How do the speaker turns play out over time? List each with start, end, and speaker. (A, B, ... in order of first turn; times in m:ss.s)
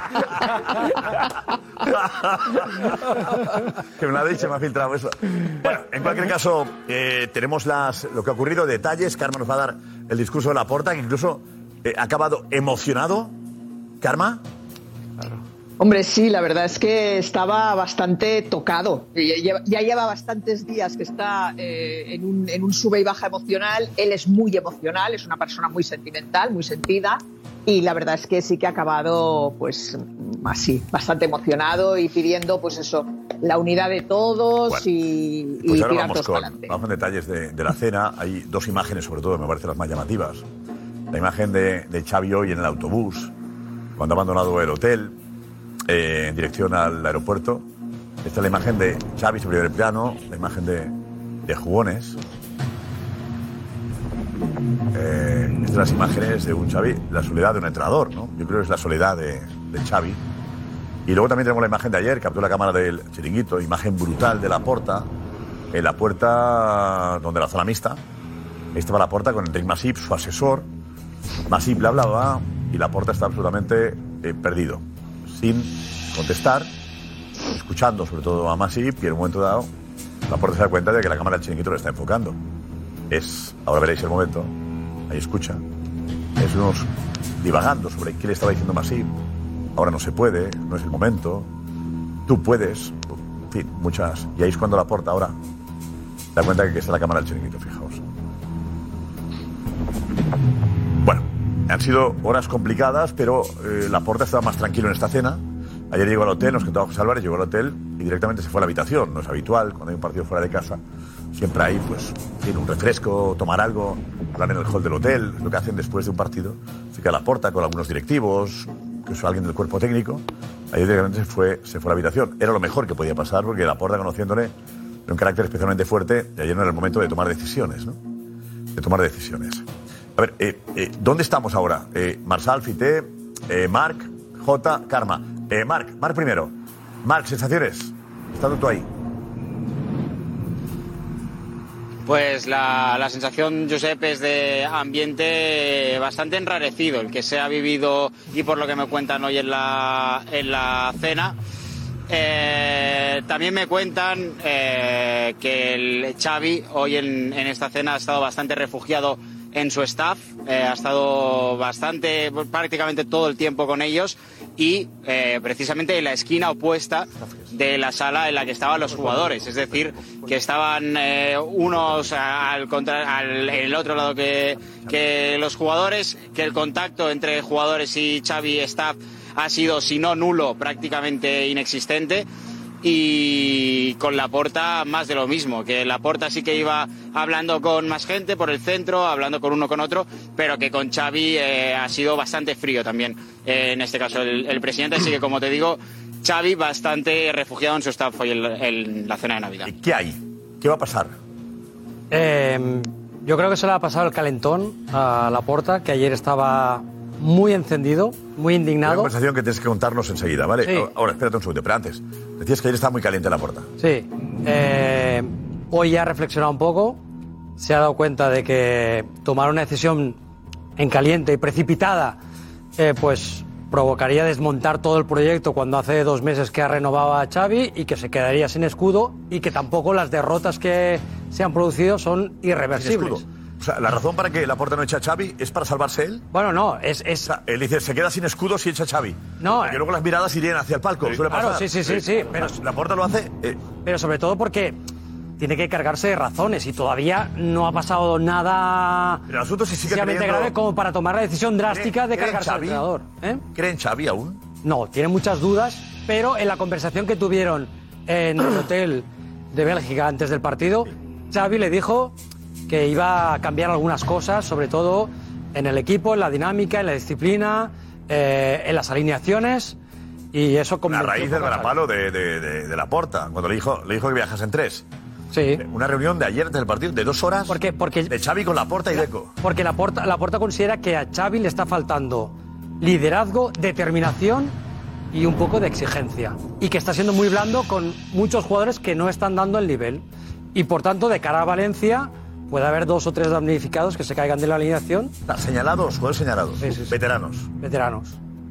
0:01.8-0:02.9 A
0:04.0-0:13.3 A
0:14.0-0:14.4 A
0:15.8-0:36.8 B
0:35.6-0:40.4 A
0:41.1-0:43.3 A
0:44.0-0:45.1 A
0:45.8-0:47.6 A
0:48.2-0:50.9 A
0:51.4-0:52.2 A
0:54.9-1:00.2 A
1:01.0-1:05.1 A
1:05.7-1:08.0 A
1:08.7-1:10.7 A
1:11.5-1:16.7 A
1:17.4-1:19.7 A
1:20.3-1:22.4 A
1:23.1-1:24.5 A
1:25.1-1:25.6 A
1:26.4-1:26.9 A
1:27.4-1:29.1 A
1:29.7-1:31.5 A
1:32.2-1:35.4 A
1:36.3-1:38.0 A
1:41.0-1:50.8 A
1:51.3-2:04.5 A
2:05.0-2:08.0 A
2:08.7-2:18.9 A
2:22.0-2:31.3 C
2:32.1-3:02.2 C
2:47.2-2:47.5 A
2:49.0-2:50.3 A
2:54.6-2:55.2 A
3:02.8-3:19.7 C
3:19.6-3:21.1 A
3:22.1-3:29.1 D
3:28.8-3:33.7 A
3:30.6-3:30.9 D
3:33.8-3:37.0 D
3:37.6-3:40.2 D
3:40.8-3:42.2 D
3:42.8-3:53.2 D
3:52.7-3:56.2 A
3:56.3-3:57.3 D
3:57.2-4:03.6 A
3:59.4-3:59.8 D
4:01.3-4:02.6 D
4:03.8-4:04.8 D
4:05.4-4:09.2 D
4:09.3-4:10.5 A
4:09.8-4:13.4 D
4:11.7-4:12.9 A
4:13.5-4:14.4 A
4:14.6-4:22.2 D
4:22.7-4:29.8 D
4:30.3-4:31.8 D
4:30.8-4:34.8 A
4:35.3-4:35.6 D
4:35.6-4:39.3 A
4:37.5-4:38.1 D
4:38.9-4:44.6 D
4:45.1-4:55.1 D
4:55.2-4:57.5 A
4:56.6-4:57.0 D
4:57.6-4:58.2 D